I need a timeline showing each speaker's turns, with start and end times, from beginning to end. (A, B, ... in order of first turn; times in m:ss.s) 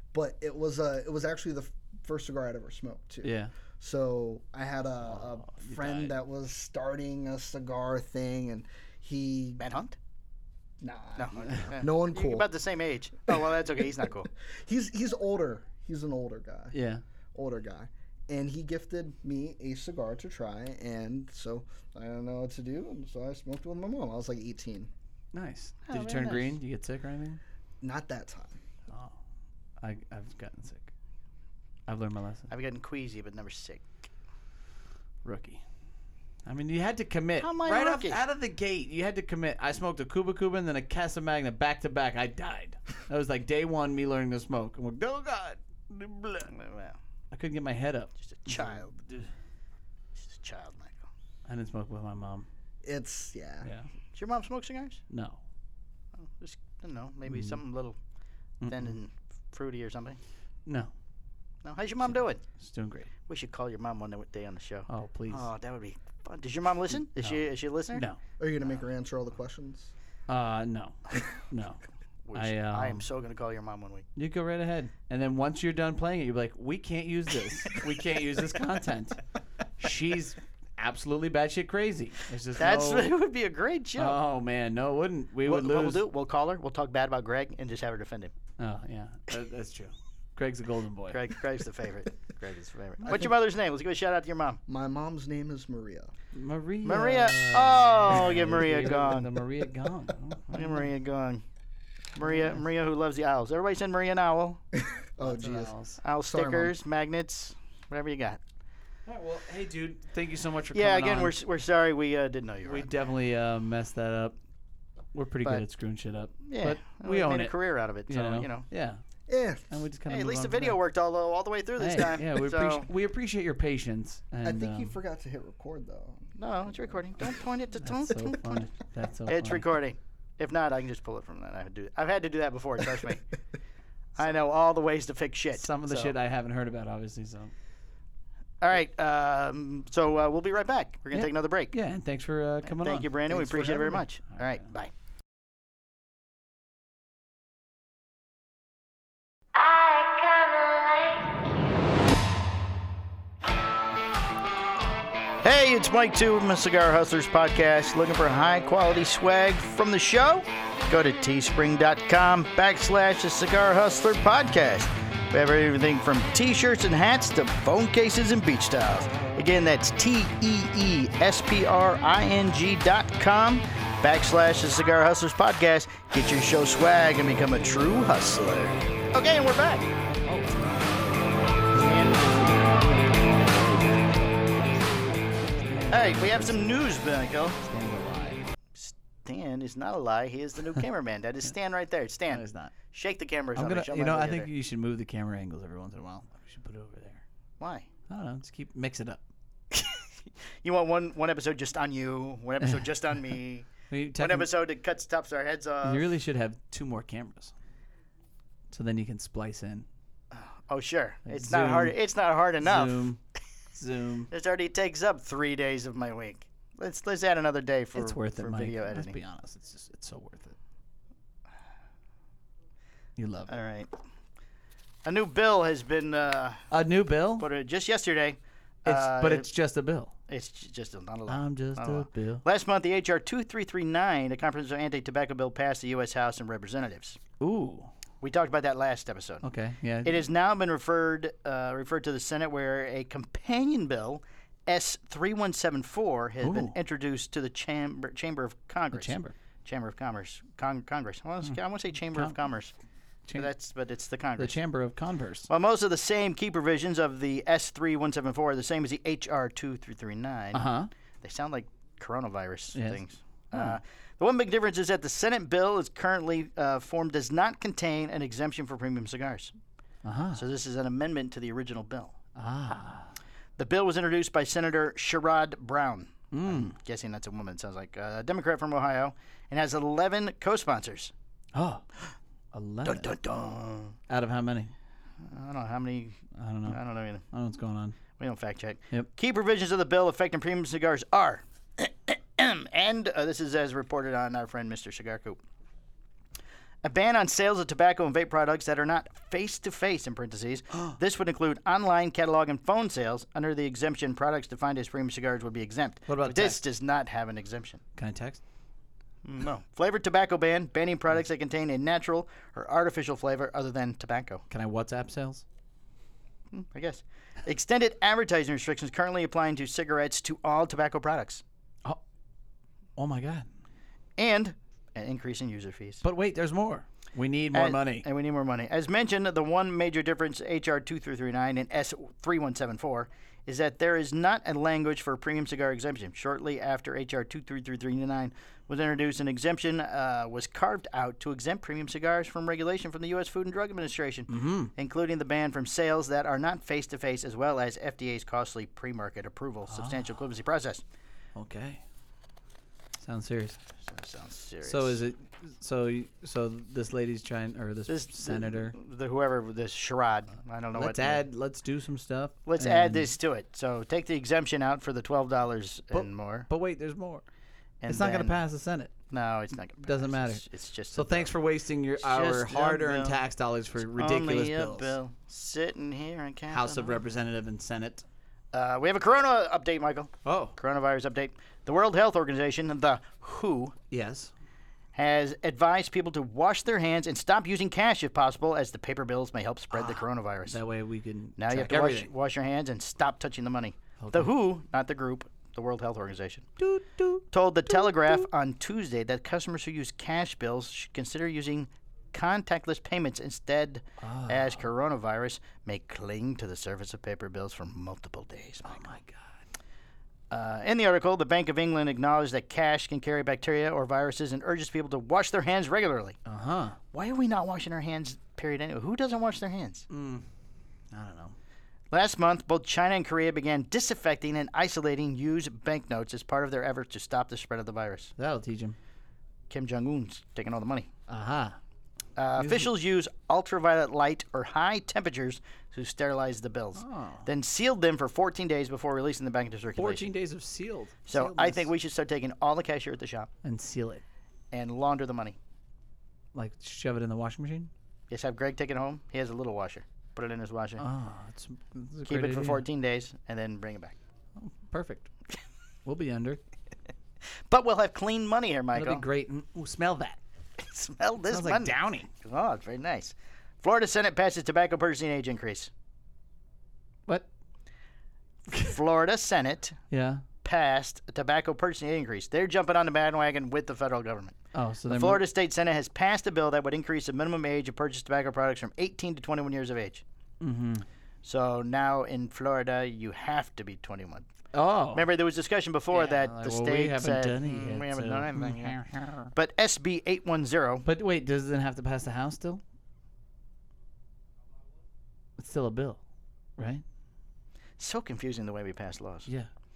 0:00.1-0:09.6 A
0:03.2-0:03.5 B
0:05.0-0:06.1 B
0:09.6-0:10.0 C
0:10.8-0:12.5 A
0:11.2-0:14.3 C
0:13.3-0:13.5 A
0:14.4-0:16.8 A
0:16.7-0:17.0 B
0:17.3-0:24.9 A
0:25.3-0:27.4 B
0:25.8-0:26.5 C
0:27.8-0:28.6 A
0:28.9-0:29.2 B
0:29.8-0:30.9 B
0:31.9-0:32.5 B
0:32.5-0:34.1 C
0:35.2-0:35.6 B
0:36.4-0:46.5 B
0:37.4-0:38.2 C
0:46.5-0:47.0 C
0:47.3-0:49.3 B
0:48.2-0:49.0 C
0:50.1-0:51.0 C
0:51.4-0:52.5 B
0:52.8-0:53.7 A
0:54.1-0:55.0 C
0:55.1-0:55.4 B
0:56.2-0:58.0 C
0:57.3-0:57.6 B
0:58.6-0:59.0 B
0:58.7-1:00.2 C
1:00.6-1:00.9 B
1:01.6-1:02.4 C
1:02.0-1:03.1 B
1:03.3-1:08.0 C
1:04.9-1:05.5 B
1:07.1-1:08.2 B
1:08.4-1:09.9 A
1:10.3-1:11.8 B
1:12.2-1:14.1 C
1:12.3-1:13.0 B
1:14.2-1:19.2 B
1:19.8-1:23.1 B
1:22.6-1:24.2 C
1:24.0-1:26.0 B
1:25.4-1:28.3 C
1:28.6-1:31.2 B
1:31.1-1:34.6 C
1:33.0-1:33.3 B
1:34.7-1:36.1 A
1:36.3-1:40.9 B
1:36.8-1:39.3 C
1:40.5-1:41.4 C
1:42.2-1:44.6 C
1:42.2-1:42.6 B
1:44.7-1:46.7 A
1:45.2-1:46.0 B
1:46.0-1:48.4 C
1:49.0-1:51.3 B
1:50.7-1:52.9 C
1:52.6-1:54.3 B
1:55.1-1:57.5 B
1:56.4-1:58.6 C
1:58.1-1:59.0 B
1:59.3-1:59.6 A
1:59.7-2:00.8 B
2:00.1-2:02.9 C
2:01.8-2:05.0 B
2:04.4-2:07.3 A
2:06.4-2:08.7 C
2:07.8-2:09.7 B
2:09.3-2:13.2 C
2:14.2-2:16.1 C
2:15.5-2:17.5 B
2:18.6-2:21.7 C
2:21.1-2:23.6 B
2:22.6-2:24.9 C
2:23.3-2:24.0 A
2:24.3-2:24.7 B
2:35.4-2:59.9 C
3:00.2-3:01.1 B
3:01.8-3:02.8 C
3:01.8-3:02.5 B
3:05.4-3:06.8 B
3:05.9-3:07.6 C
3:07.6-3:08.4 B
3:08.7-3:14.5 C
3:12.3-3:12.7 B
3:13.5-3:17.2 B
3:17.6-3:17.9 C
3:18.1-3:19.2 B
3:20.6-3:26.1 C
3:22.6-3:22.8 B
3:23.9-3:24.5 B
3:25.8-3:27.5 B
3:28.7-3:29.9 B
3:30.3-3:33.1 C
3:31.2-3:32.0 B
3:32.6-3:33.2 B
3:33.7-3:34.3 B
3:34.3-3:39.2 C
3:37.9-3:40.6 B
3:43.2-3:43.6 B
3:43.5-3:43.9 C
3:45.0-3:46.6 C
3:46.7-3:47.5 B
3:47.4-3:49.5 C
3:48.8-3:50.1 B
3:50.3-3:57.2 C
3:51.3-3:52.4 B
3:57.4-3:57.9 B
3:58.2-3:59.4 C
3:59.4-4:00.3 B
4:00.0-4:12.7 C
4:06.4-4:06.8 B
4:08.9-4:09.3 B
4:11.4-4:12.4 B
4:13.3-4:14.5 C
4:14.4-4:15.5 B
4:15.5-4:20.7 C
4:20.5-4:20.9 B
4:21.2-4:29.5 C
4:22.7-4:23.0 B
4:23.5-4:23.8 B
4:30.0-4:30.4 B
4:30.3-4:32.1 C
4:32.3-4:33.1 B
4:33.6-4:41.1 C
4:36.3-4:36.8 B
4:41.5-4:41.8 B
4:42.5-4:43.2 B
4:42.8-4:44.0 C
4:44.1-4:44.7 B
4:45.2-4:47.2 C
4:46.3-4:48.0 B
4:48.2-4:55.4 C
4:56.8-5:07.8 C
5:00.7-5:01.0 B
5:06.1-5:06.6 B
5:08.0-5:08.4 B
5:09.2-5:14.4 C
5:14.5-5:15.4 B
5:16.5-5:21.4 C
5:23.0-5:23.5 B
5:24.2-5:26.0 C
5:26.0-5:28.0 B
5:27.5-5:50.8 C
5:44.3-5:44.7 B
5:49.7-5:50.2 B
5:51.3-5:51.8 B
5:53.0-5:53.6 B
5:53.8-5:55.0 C
5:54.6-5:58.8 B
5:57.9-6:01.2 C
6:00.7-6:03.1 B
6:02.4-6:06.5 C
6:05.9-6:07.2 B
6:07.8-6:08.4 C
6:07.8-6:08.9 B
6:09.1-6:11.4 C
6:09.8-6:14.9 B
6:12.0-6:13.2 C
6:13.9-6:17.0 C
6:16.5-6:18.0 B
6:18.5-6:23.7 C
6:20.2-6:20.6 B
6:23.9-6:24.3 B
6:24.9-6:30.6 C
6:29.7-6:32.1 B
6:31.4-6:36.4 C
6:34.0-6:34.3 B
6:36.6-6:38.3 B
6:37.3-6:48.9 C
6:44.0-6:44.7 B
6:48.6-6:49.4 B
6:50.3-6:56.2 C
6:56.2-6:56.8 B
6:56.9-6:59.9 C
6:59.9-7:00.3 B
7:00.9-7:01.4 B
7:01.9-7:08.1 C
7:08.2-7:08.8 B
7:09.5-7:10.9 C
7:11.1-7:11.6 B
7:12.2-7:20.1 C
7:12.4-7:12.7 B
7:16.8-7:17.3 B
7:19.7-7:21.7 B
7:21.1-7:23.3 C
7:23.4-7:24.0 B
7:24.5-7:25.4 C
7:26.3-7:27.7 B
7:28.1-7:30.8 C
7:30.8-7:32.6 B
7:32.0-7:34.0 C
7:34.4-7:35.1 B
7:35.8-7:36.4 B
7:37.5-7:39.0 C
7:38.7-7:40.2 B
7:40.6-7:45.7 C
7:41.3-7:42.1 B
7:48.5-7:49.8 C
7:49.9-7:50.2 B
7:50.4-7:54.4 C
7:54.5-7:55.2 B
7:54.9-8:00.0 C
8:00.4-8:00.8 B
8:01.2-8:04.3 C
8:04.5-8:05.1 B
8:04.9-8:08.8 C
8:05.9-8:09.3 B
8:09.3-8:10.8 C
8:10.8-8:12.6 B
8:15.4-8:16.0 B
8:16.6-8:16.8 B
8:17.8-8:19.3 C